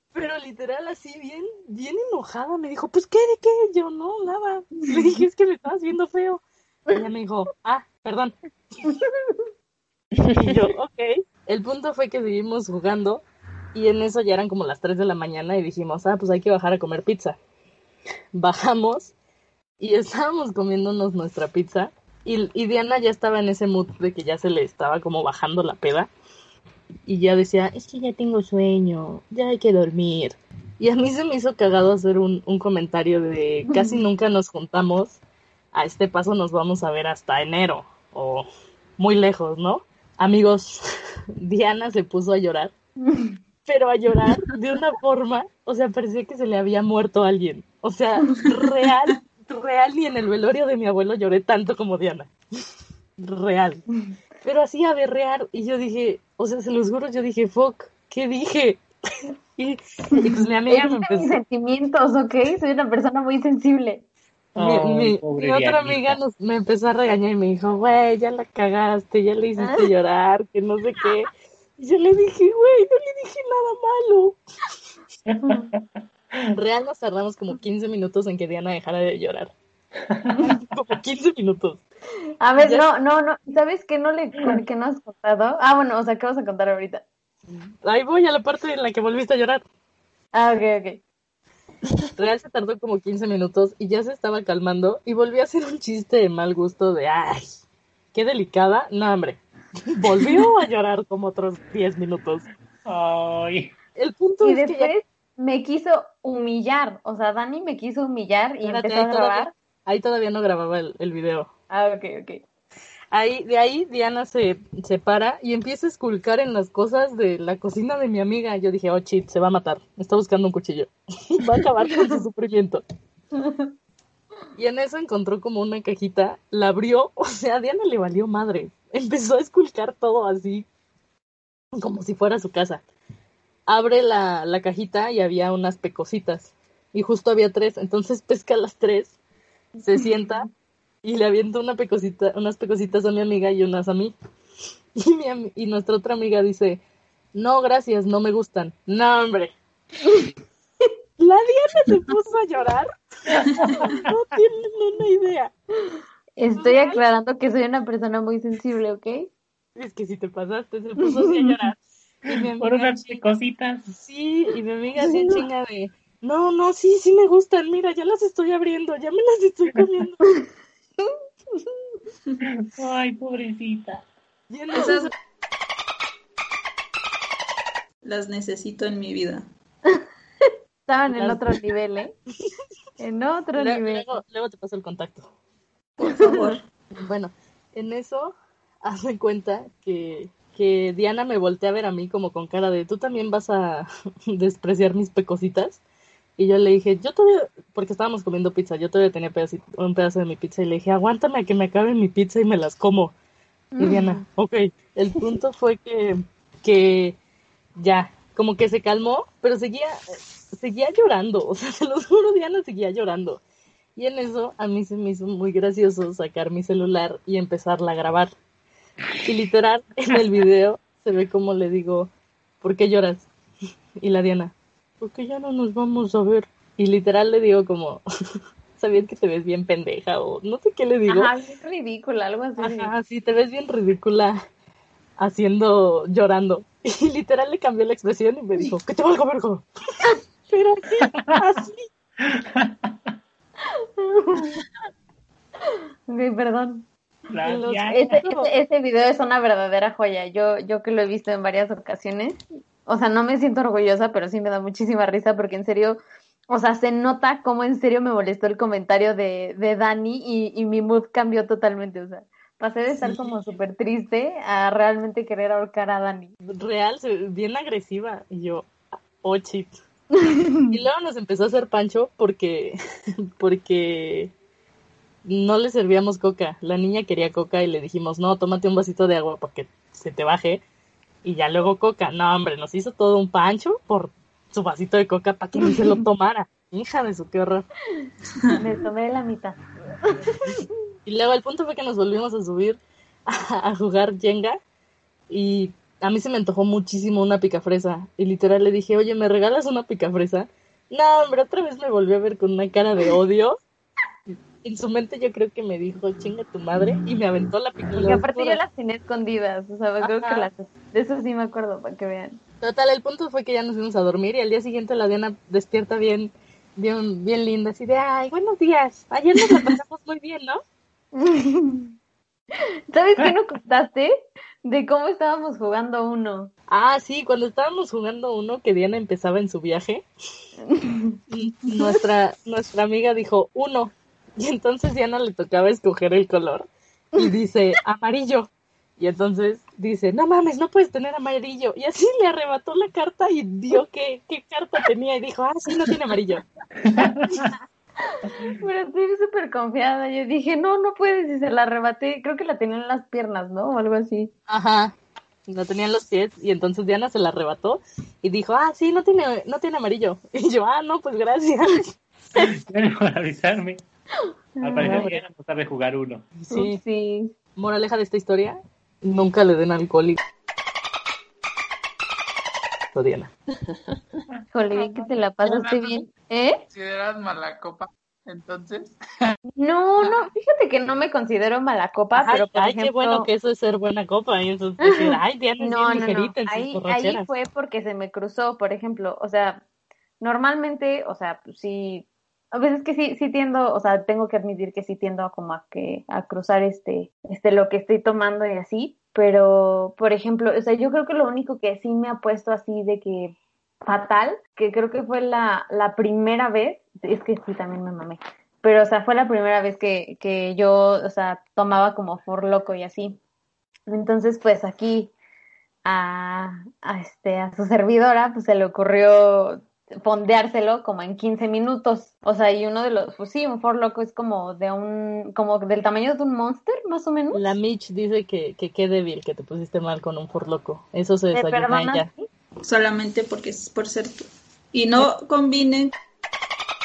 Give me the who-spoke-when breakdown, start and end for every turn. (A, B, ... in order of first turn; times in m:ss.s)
0:00.1-0:08.9 A
0:08.8-0:09.4 B
0:10.4-0:13.2 A
0:13.7-0:17.4 A
0:18.3-0:19.1 A
0:19.8-0:26.1 A
0:27.1-0:35.2 A
0:33.7-0:34.0 B
0:35.7-0:38.5 A
0:39.0-0:40.8 A
0:41.4-0:42.7 A
0:43.0-0:43.4 B
0:43.7-0:52.3 A
0:53.2-0:53.8 A
0:54.4-0:58.8 A
0:59.6-1:01.4 A
1:00.1-1:04.0 B
1:04.6-1:06.2 C
1:04.6-1:14.4 A
1:09.6-1:09.9 B
1:15.3-1:16.5 C
1:15.4-1:15.7 B
1:16.6-1:19.5 A
1:20.1-1:20.6 C
1:20.7-1:21.8 A
1:22.4-1:27.0 B
1:22.6-1:22.9 A
1:27.5-1:29.6 A
1:30.3-1:31.0 B
1:32.2-1:37.5 A
1:38.1-1:42.5 A
1:42.8-1:43.7 C
1:44.0-1:44.9 A
1:44.4-1:49.5 B
1:48.6-1:51.5 A
1:51.7-1:52.4 B
1:53.1-2:02.8 A
2:01.5-2:02.2 B
2:03.4-2:03.7 B
2:04.6-2:10.7 A
2:11.8-2:12.8 A
2:13.7-2:19.2 A
2:19.8-2:20.5 A
2:19.9-2:20.5 B
2:21.0-2:24.1 A
2:25.0-2:26.8 A
2:27.3-2:29.5 A
2:31.2-2:32.9 A
2:33.3-2:34.1 C
2:33.7-2:35.5 A
2:36.4-2:39.3 B
2:36.6-2:37.0 A
2:39.8-2:43.2 A
2:41.1-2:41.6 B
2:42.3-2:43.9 C
2:43.9-2:50.2 A
2:45.0-2:45.4 B
2:51.0-2:51.7 B
2:52.4-2:54.0 C
2:54.5-2:55.1 A
2:54.7-2:55.1 D
2:58.0-2:59.4 D
2:59.9-3:02.1 B
3:01.2-3:01.5 A
3:03.0-3:04.2 B
3:03.6-3:05.3 A
3:06.0-3:06.6 D
3:06.0-3:06.6 B
3:07.0-3:15.8 A
3:16.4-3:23.1 A
3:23.7-3:24.2 B
3:23.8-3:27.2 A
3:27.8-3:33.4 A
3:34.0-3:38.3 A
3:39.2-3:43.3 A
3:44.0-3:48.0 A
3:48.8-3:51.3 A
3:51.1-3:52.9 B
3:52.6-3:54.4 A
3:55.2-3:59.6 A
4:00.5-4:01.9 A
4:02.2-4:03.0 C
4:04.0-4:04.6 B
4:06.1-4:06.8 B
4:07.3-4:08.2 C
4:07.4-4:08.5 A
4:07.9-4:16.0 B
4:16.5-4:26.3 B
4:23.0-4:23.3 A
4:26.5-4:29.8 A
4:30.2-4:30.8 B
4:30.7-4:32.8 A
4:33.4-4:34.3 A
4:35.2-4:40.6 A
4:41.2-4:47.7 A
4:48.4-4:48.6 D
4:48.5-4:50.7 B
4:51.1-4:54.6 A
4:55.3-5:03.6 A
5:04.6-5:08.6 A
5:07.9-5:12.4 B
5:10.0-5:10.5 A
5:12.6-5:20.6 A
5:19.4-5:19.8 B
5:21.1-5:21.9 B
5:22.6-5:24.1 B
5:24.6-5:26.5 B
5:26.7-5:30.0 A
5:30.7-5:31.2 B
5:31.3-5:46.4 A
5:31.7-5:32.0 B
5:46.8-5:47.5 C
5:48.1-5:54.3 B
5:54.5-5:55.0 A
5:55.5-6:01.9 A
6:02.4-6:03.8 C
6:04.6-6:05.1 B
6:04.6-6:06.2 C
6:04.8-6:05.2 A
6:06.4-6:06.8 A
6:06.5-6:07.3 B
6:07.6-6:10.2 A
6:12.9-6:13.3 A
6:14.5-6:16.6 B
6:15.4-6:16.1 E
6:16.7-6:18.9 E
6:19.6-6:23.3 B
6:20.0-6:20.3 E
6:22.2-6:27.3 A
6:24.9-6:29.6 B
6:30.2-6:53.2 B
6:53.9-6:55.1 B
6:55.8-7:07.5 B
7:07.3-7:12.1 A
7:11.3-7:12.2 B
7:12.6-7:15.9 D